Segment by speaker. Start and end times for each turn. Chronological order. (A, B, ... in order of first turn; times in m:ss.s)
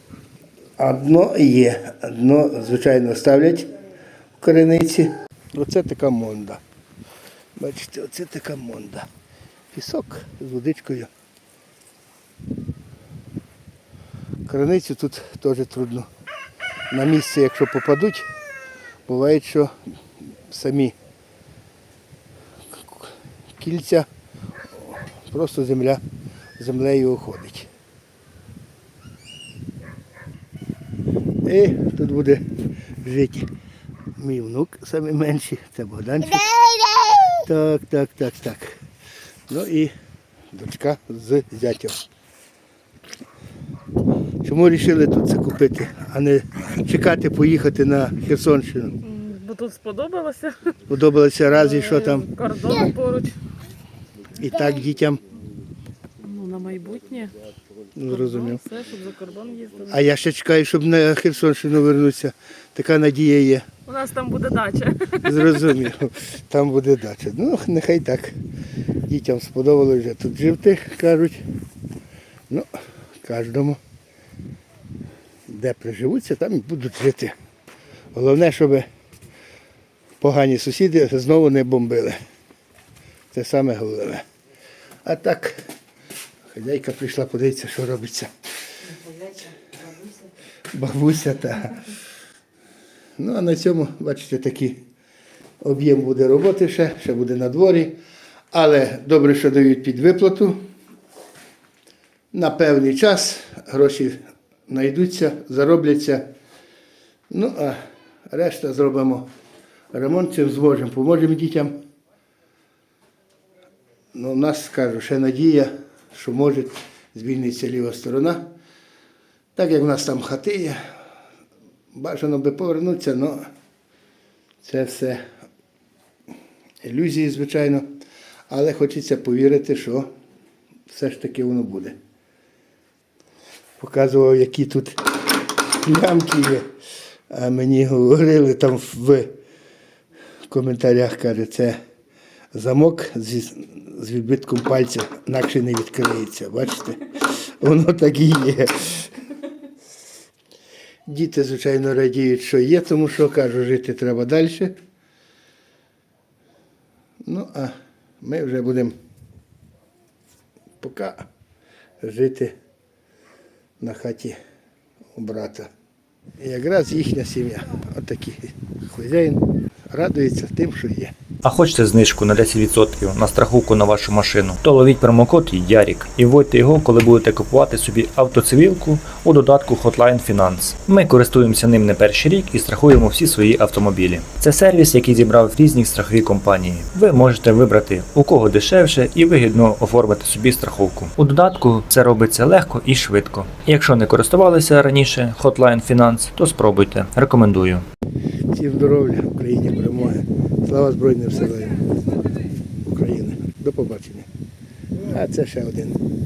0:00.8-0:03.7 A
0:04.4-0:06.6 A
0:07.6-0:09.1 A
0:09.7-0:11.1 A
0:14.5-0:16.1 A
0:16.9-0:18.3 A
0:19.1-0:19.8 A
0:20.3-0:21.0 A
0:22.8-0:24.1 A
0:24.8-0:26.0 A
0:26.6-0:27.7 A
0:31.4-0:32.4 A
0:33.0-0:33.5 A
0:34.2-0:36.6 A
0:37.3-0:38.7 A
0:39.5-0:39.9 A
0:40.5-0:42.0 A
0:44.4-0:49.0 A
0:49.0-0:50.6 B
0:50.9-0:52.3 A
0:51.5-0:53.4 B
0:54.4-0:55.2 A
0:56.2-0:57.4 B
0:58.0-0:58.6 A
0:58.1-1:00.0 B
0:59.9-1:03.7 A
1:03.9-1:05.2 B
1:05.2-1:08.4 A
1:09.1-1:11.4 A
1:13.2-1:13.8 A
1:15.5-1:17.3 A
1:18.1-1:18.9 A
1:20.2-1:22.2 A
1:23.3-1:24.2 A
1:25.0-1:25.6 A
1:26.5-1:28.3 A
1:30.7-1:31.9 A
1:33.2-1:34.8 A
1:35.6-1:38.0 A
1:38.5-1:40.6 A
1:42.3-1:46.3 A
1:47.3-1:49.3 A
1:49.9-1:51.8 A
1:54.1-1:58.5 A
1:59.6-2:00.8 A
2:01.9-2:03.5 A
2:04.6-2:05.2 A
2:06.8-2:07.9 A
2:08.5-2:10.1 A
2:10.9-2:12.0 A
2:13.8-2:15.1 A
2:15.8-2:16.7 A
2:17.3-2:19.4 A
2:20.5-2:21.8 A
2:22.5-2:29.1 A
2:31.1-2:34.7 A
2:37.2-2:39.0 A
2:40.8-2:41.3 A
2:42.0-2:42.6 A
2:43.8-2:44.4 A
2:45.2-2:45.7 A
2:46.4-2:51.2 A
2:51.4-3:17.8 C
3:18.5-3:21.9 A
3:22.8-3:24.3 A
3:25.0-3:26.0 A